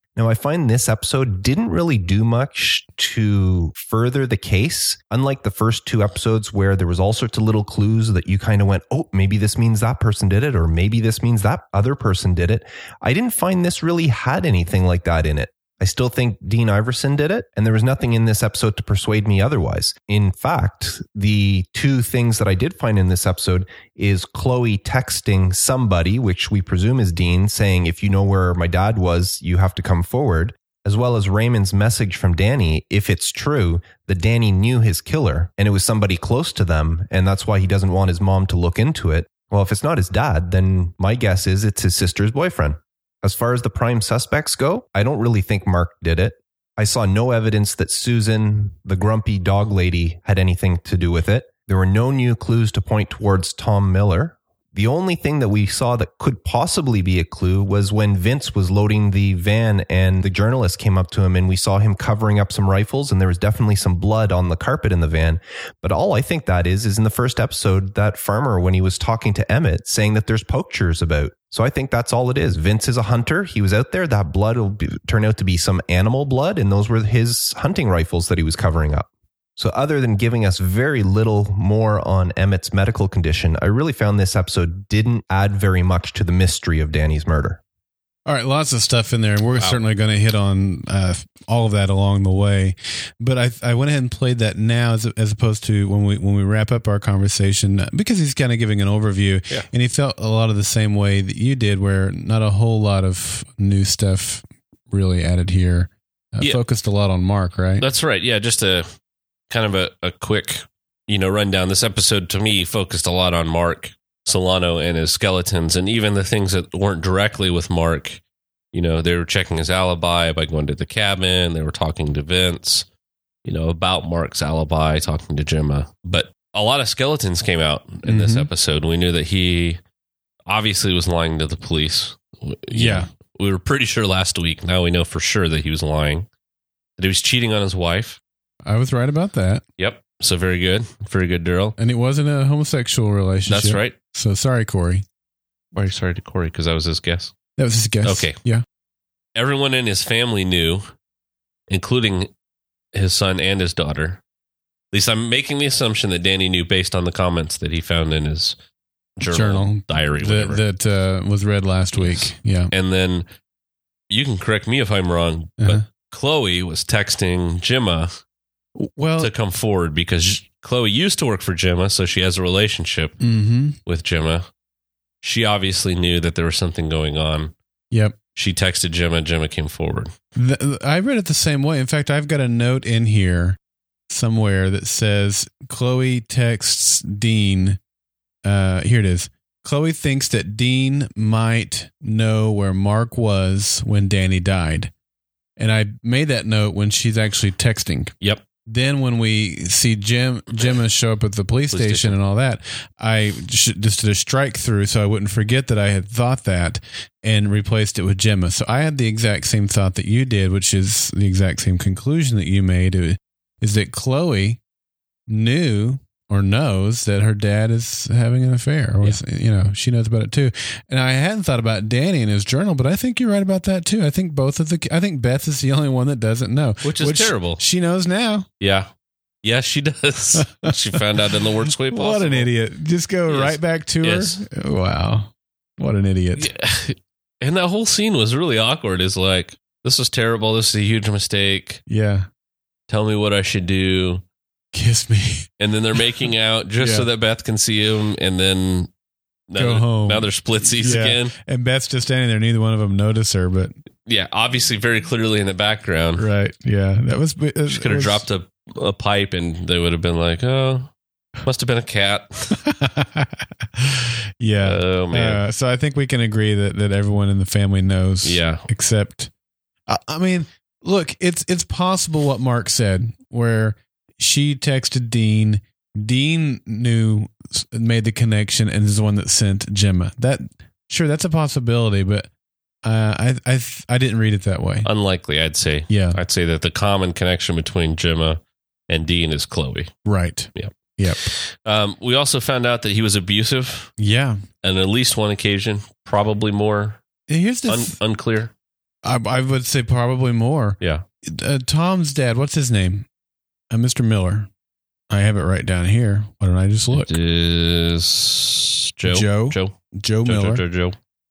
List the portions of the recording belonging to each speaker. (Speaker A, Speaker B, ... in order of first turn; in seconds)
Speaker A: 0.1-87.6
Speaker B: 88.2-107.8, 128.1-128.5, 132.7-133.1, 138.6-139.6, 141.8-145.0, 147.6-148.6, 159.2-162.7, 168.8-169.3, 173.2-173.8, 180.3-183.6, 184.1-187.8, 188.4-194.9, 195.6-198.1, 198.7-214.6, 215.3-228.5, 230.3-231.0, 231.8-236.5, 241.9-242.3, 244.7-245.5, 246.8-247.1, 249.6-253.7, 256.2-258.2, 262.5-269.3, 269.9-282.3, 282.8-284.9, 285.9-286.2, 290.0-291.2, 294.0-294.4, 297.3-297.9, 299.0-303.1, 303.7-304.5, 305.1-307.1, 309.1-310.6
Speaker C: 107.8-108.9, 109.5-118.2, 118.7-122.8, 123.4-129.8, 130.5-136.3, 137.0-138.2, 139.8-141.8, 143.5-143.9, 145.7-147.3, 148.0-148.3, 149.3-150.9, 151.7-152.3, 152.9-154.2, 154.9-158.5, 159.2-160.6, 162.0-163.2, 164.1-168.2, 169.2-173.2, 173.8-174.5, 175.2-177.5, 178.3-180.1, 201.7-202.2, 226.8-227.6, 228.6-228.9, 229.4-232.5, 233.3-234.4, 236.4-241.8, 242.9-244.2, 245.6-248.9, 249.5-251.3, 254.1-256.2, 257.7-260.9, 261.4-262.6, 264.6-265.4, 268.2-268.6, 284.8-289.9, 290.6-293.9, 294.6-297.0, 297.7-298.5, 306.9-309.7, 310.2-310.9